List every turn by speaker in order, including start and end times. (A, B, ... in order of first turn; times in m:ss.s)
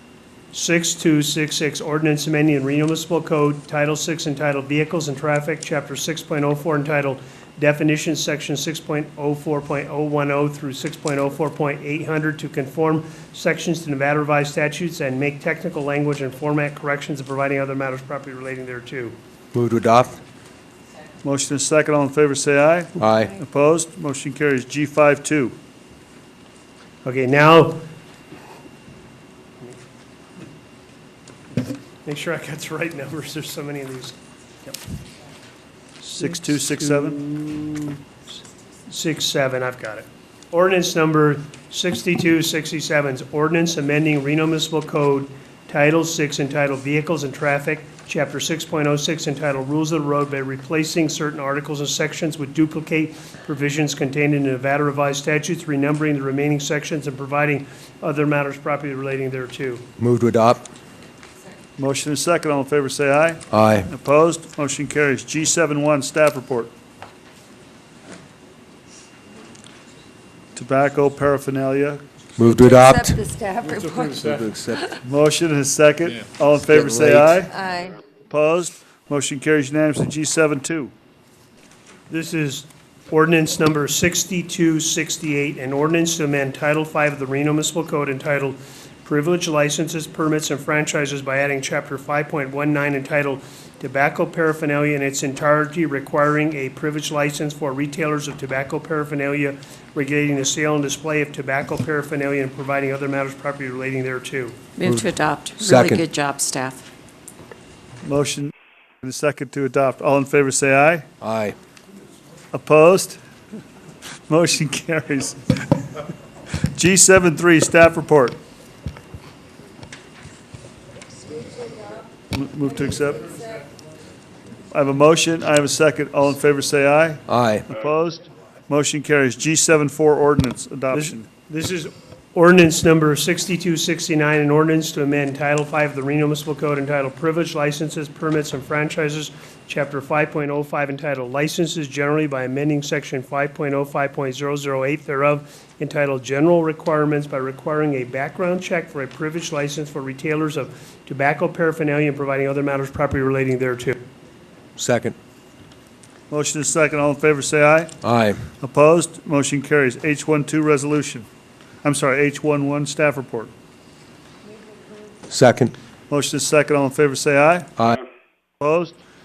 0:00.5-0:19.2 A
0:19.5-0:20.2 B
0:21.2-0:25.6 C
0:23.0-0:23.4 B
0:27.0-0:27.8 A
0:31.6-0:34.8 A
0:36.0-0:38.0 A
0:36.1-0:37.2 C
0:38.9-0:59.8 A
1:00.0-1:00.6 B
1:01.8-1:06.7 C
1:03.5-1:03.9 B
1:10.5-1:12.0 C
1:12.4-1:13.2 B
1:12.5-1:15.0 D
1:13.9-1:15.0 B
1:15.0-1:17.5 C
1:16.7-1:17.4 B
1:17.5-1:18.0 D
1:18.3-1:20.9 C
1:22.1-1:44.6 A
1:44.8-1:46.0 B
1:44.9-1:46.8 E
1:48.0-1:51.1 C
1:51.2-1:51.6 B
1:52.5-1:53.2 C
1:54.3-1:56.0 C
1:56.6-1:58.4 C
2:02.3-2:03.5 C
2:04.7-2:11.3 C
2:07.3-2:07.6 B
2:10.9-2:34.0 A
2:34.8-2:35.1 B
2:36.3-2:38.0 C
2:38.0-2:38.4 B
2:38.6-2:41.2 C
2:41.8-2:43.5 C
2:45.3-2:45.7 B
2:46.1-2:47.7 C
2:48.6-2:49.0 C